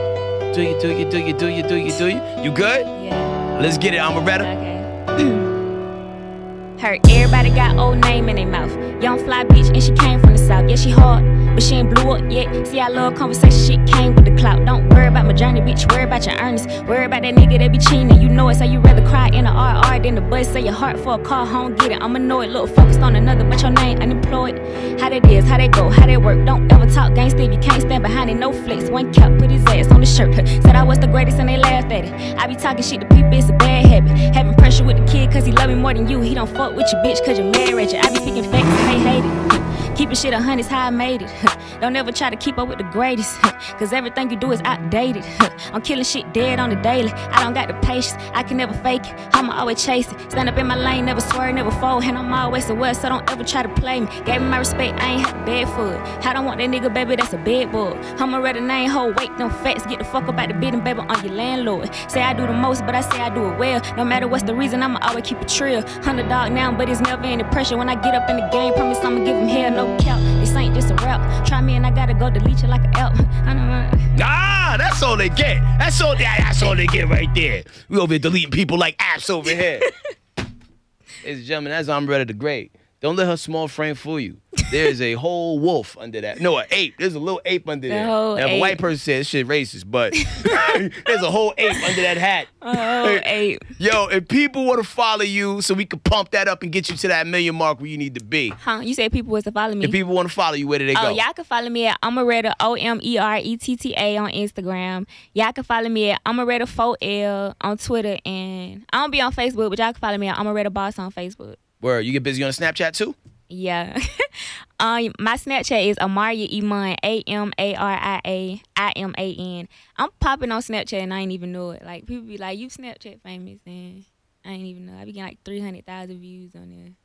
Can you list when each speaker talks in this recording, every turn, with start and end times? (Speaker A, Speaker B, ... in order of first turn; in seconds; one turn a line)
Speaker A: 0.5-2.9
Speaker B: 2.9-3.4
Speaker A: 3.5-4.5
Speaker B: 4.4-5.5
Speaker B: 6.8-74.1
Speaker A: 74.2-79.9
Speaker A: 81.2-93.2
Speaker B: 87.9-88.8
Speaker B: 90.1-90.7
Speaker B: 92.6-93.7
Speaker A: 93.8-98.6
Speaker B: 98.6-100.0
Speaker A: 99.8-101.2
Speaker B: 100.9-111.6
Speaker A: 111.8-113.2
Speaker B: 113.5-127.0